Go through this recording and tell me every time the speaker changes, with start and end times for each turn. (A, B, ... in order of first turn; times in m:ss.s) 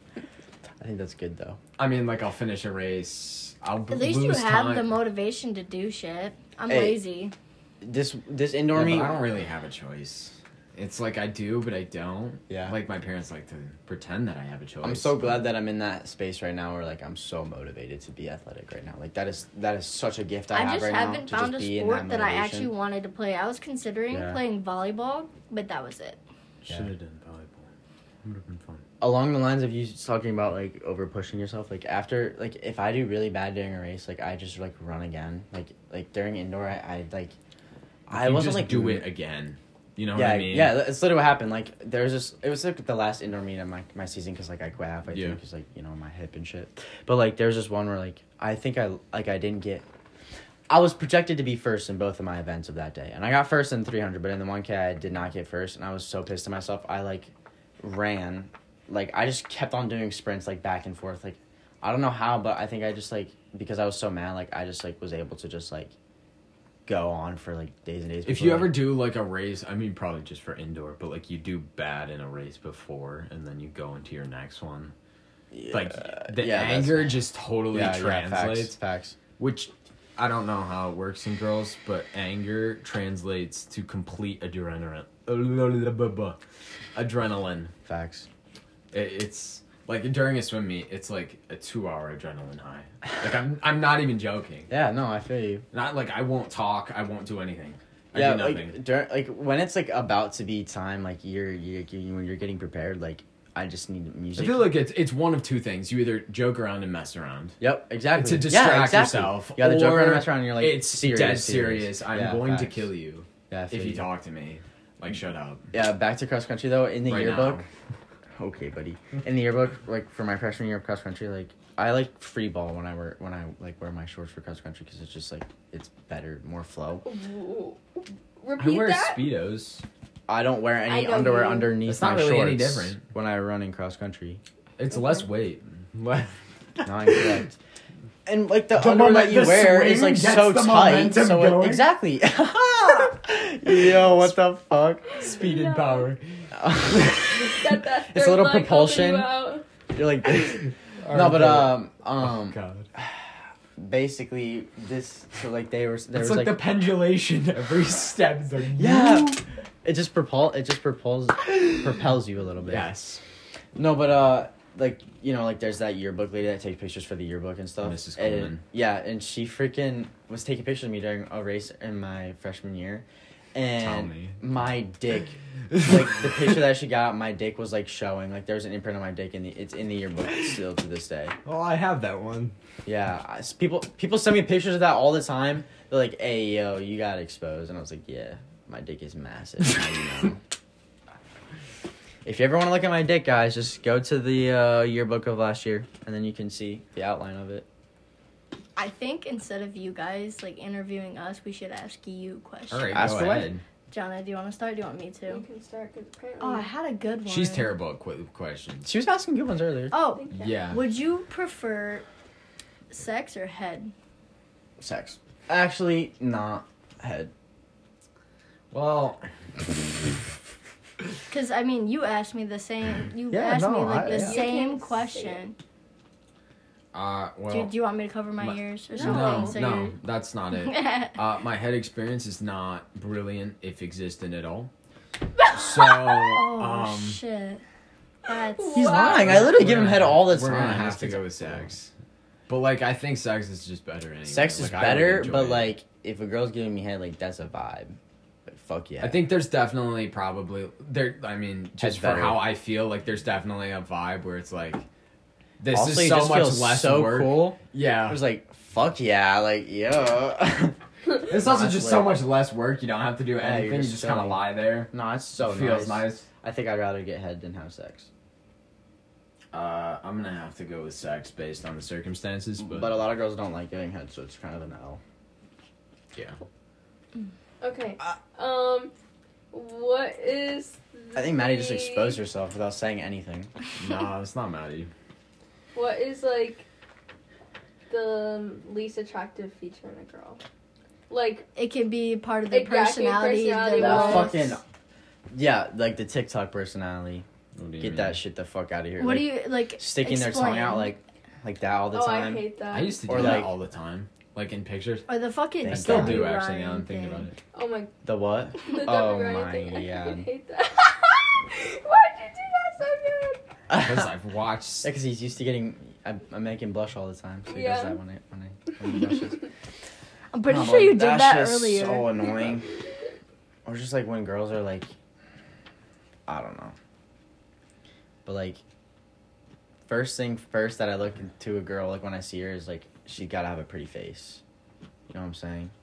0:00.8-0:01.6 A
0:01.8-0:05.0 B
0:03.9-0:07.3 C
0:06.7-0:07.0 A
0:07.8-0:09.2 A
0:08.7-0:15.5 B
0:12.5-0:12.8 A
0:14.8-0:22.7 A
0:20.5-0:26.2 C
0:24.1-0:24.4 A
0:26.6-0:27.7 B
0:28.2-0:28.8 B
0:29.0-0:37.4 A
0:38.1-0:39.1 A
0:38.1-0:40.8 B
0:40.1-0:49.8 A
0:45.1-0:45.4 B
0:50.7-1:05.9 A
1:06.8-1:08.8 A
1:08.2-1:14.9 B
1:15.5-1:17.2 A
1:15.7-1:18.8 B
1:17.7-1:19.2 A
1:19.4-1:26.4 B
1:26.9-1:27.7 B
1:27.8-1:28.3 A
1:28.9-1:34.7 B
1:34.7-1:35.6 A
1:35.7-1:38.8 B
1:38.1-1:44.7 A
1:44.4-1:47.6 B
1:47.6-1:52.9 A
1:48.1-1:55.7 B
1:53.5-1:54.1 A
1:55.7-1:57.6 A
1:57.1-1:57.6 B
1:58.4-2:07.1 A
2:07.0-2:09.3 D
2:08.6-2:09.8 B
2:10.3-2:14.4 A
2:10.8-2:11.8 D
2:11.9-2:13.0 B
2:14.8-2:17.3 B
2:16.8-2:17.5 A
2:18.2-2:25.1 A
2:18.8-2:21.9 B
2:25.1-2:26.1 D
2:25.2-2:26.3 B
2:26.5-2:29.3 A
2:27.3-2:29.6 D
2:29.9-2:33.2 A
2:31.0-2:32.9 B
2:33.8-2:36.6 A
2:36.1-2:39.4 B
2:38.8-2:42.9 A
2:42.6-2:43.2 B
2:43.8-3:01.4 A
2:47.8-2:48.6 B
2:53.8-2:54.4 B
2:55.7-2:56.5 B
3:01.4-3:02.5 B
3:02.8-3:10.4 A
3:12.2-3:17.6 A
3:18.8-3:23.4 C
3:22.7-3:23.6 B
3:22.9-3:23.5 A
3:23.9-3:25.4 C
3:25.3-3:26.7 D
3:26.4-3:27.7 C
3:27.2-3:28.9 B
3:28.8-3:29.9 A
3:29.9-3:32.1 C
3:30.0-3:30.6 D
3:30.3-3:30.8 B
3:32.9-3:33.9 C
3:34.8-3:37.3 A
3:38.7-3:39.3 B
3:41.3-3:45.6 C
3:43.3-3:44.4 A
3:44.0-3:45.4 D
3:46.9-3:47.7 B
3:47.5-3:50.0 C
3:48.4-3:54.7 B
3:48.9-3:49.6 D
3:50.6-3:51.2 C
3:55.5-3:57.2 B
3:55.8-3:57.6 C
3:58.2-3:59.2 C
3:58.3-3:59.6 D
3:58.7-4:01.7 A
3:58.9-4:01.9 B
4:02.5-4:05.8 B
4:04.3-4:09.3 A
4:09.0-4:14.8 B
4:11.8-4:12.4 A
4:15.6-4:18.2 B
4:15.7-4:22.2 A
4:21.3-4:26.2 B
4:23.4-4:28.1 A
4:29.5-4:33.0 B
4:32.6-4:35.0 A
4:37.6-4:38.9 D
4:39.5-4:42.2 D
4:41.1-4:43.5 A
4:43.8-4:44.9 B
4:45.7-4:46.6 D
4:47.9-4:50.4 D
4:51.1-4:51.5 D
4:51.5-4:54.6 C
4:52.5-4:54.4 D
4:53.7-4:54.6 A
4:55.3-4:57.2 A
4:57.5-4:58.2 B
4:57.8-5:02.4 A
4:59.0-5:00.9 C
5:01.9-5:03.3 D
5:02.7-5:05.1 B
5:03.1-5:03.5 A
5:05.1-5:07.3 C
5:05.6-5:06.3 A
5:05.6-5:07.4 B
5:07.5-5:07.9 D
5:08.0-5:10.3 A
5:08.6-5:13.4 D
5:13.7-5:14.1 A
5:13.8-5:14.9 B
5:14.8-5:19.5 A
5:17.5-5:18.0 D
5:20.3-5:22.3 C
5:20.4-5:22.7 A
5:23.6-5:24.9 A
5:26.3-5:26.8 A
5:28.2-5:28.6 A
5:29.9-5:34.4 A
5:35.1-5:35.7 A